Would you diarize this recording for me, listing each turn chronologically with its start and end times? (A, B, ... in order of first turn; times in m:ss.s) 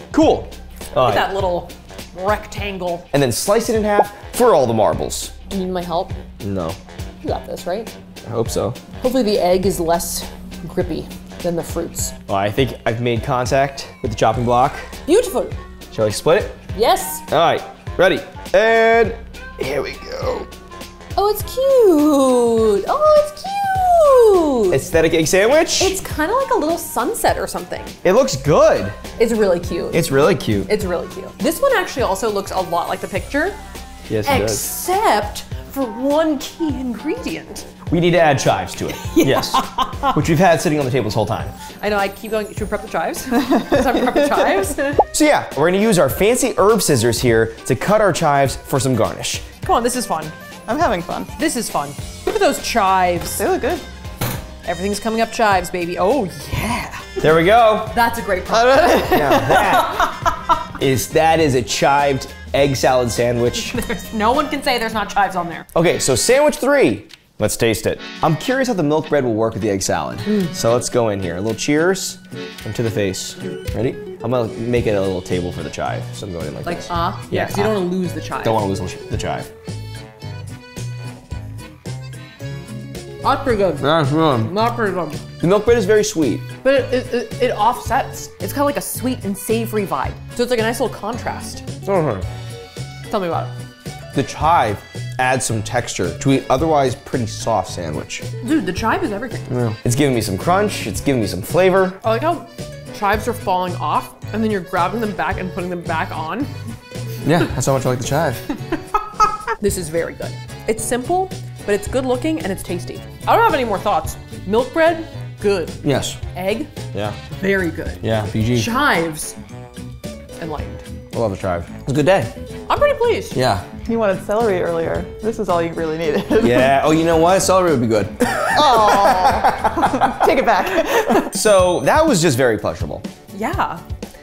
0:00.1-0:01.3 A
0:00.9-0:03.0 B
0:03.1-0:05.3 A
0:05.5-0:06.1 B
0:06.4-0:06.8 A
0:07.2-0:07.9 B
0:08.3-0:08.8 A
0:09.0-0:12.1 B
0:12.3-0:14.9 A
0:15.1-0:15.6 B
0:15.9-0:16.6 A
0:16.7-0:17.2 B
0:17.3-0:20.5 A
0:21.2-0:24.8 B
0:24.7-0:26.0 A
0:25.8-0:28.0 B
0:28.0-0:29.0 A
0:29.2-0:33.6 B
0:29.9-0:30.7 A
0:34.1-0:34.7 A
0:34.2-0:37.7 B
0:37.9-0:41.5 A
0:39.0-0:40.2 B
0:41.8-0:45.0 B
0:43.4-0:44.7 C
0:45.1-0:49.5 A
0:49.6-0:50.3 B
0:50.7-0:51.3 C
0:51.4-0:53.4 B
0:53.4-0:53.8 C
0:54.6-0:57.1 B
0:57.2-0:57.9 A
0:57.9-1:00.5 B
0:58.5-0:59.6 C
0:59.0-1:00.2 A
1:00.7-1:03.8 A
1:03.6-1:05.7 B
1:05.7-1:17.9 A
1:16.6-1:18.6 B
1:18.4-1:19.5 A
1:23.2-1:25.2 B
1:23.8-1:24.5 A
1:25.4-1:26.4 A
1:26.6-1:31.6 B
1:31.8-1:32.2 A
1:33.1-1:33.5 B
1:34.1-1:38.2 A
1:38.4-1:39.5 B
1:39.5-1:42.0 A
1:42.0-1:46.5 B
1:47.2-1:48.4 A
1:49.6-1:56.7 B
1:55.8-1:56.2 A
1:57.3-1:59.4 B
1:58.0-1:58.7 A
2:00.4-2:00.8 B
2:01.1-2:02.3 A
2:02.7-2:03.4 B
2:03.3-2:03.6 A
2:03.8-2:06.7 C
2:06.4-2:10.2 A
2:08.5-2:11.3 C
2:11.2-2:13.0 A
2:13.3-2:13.8 B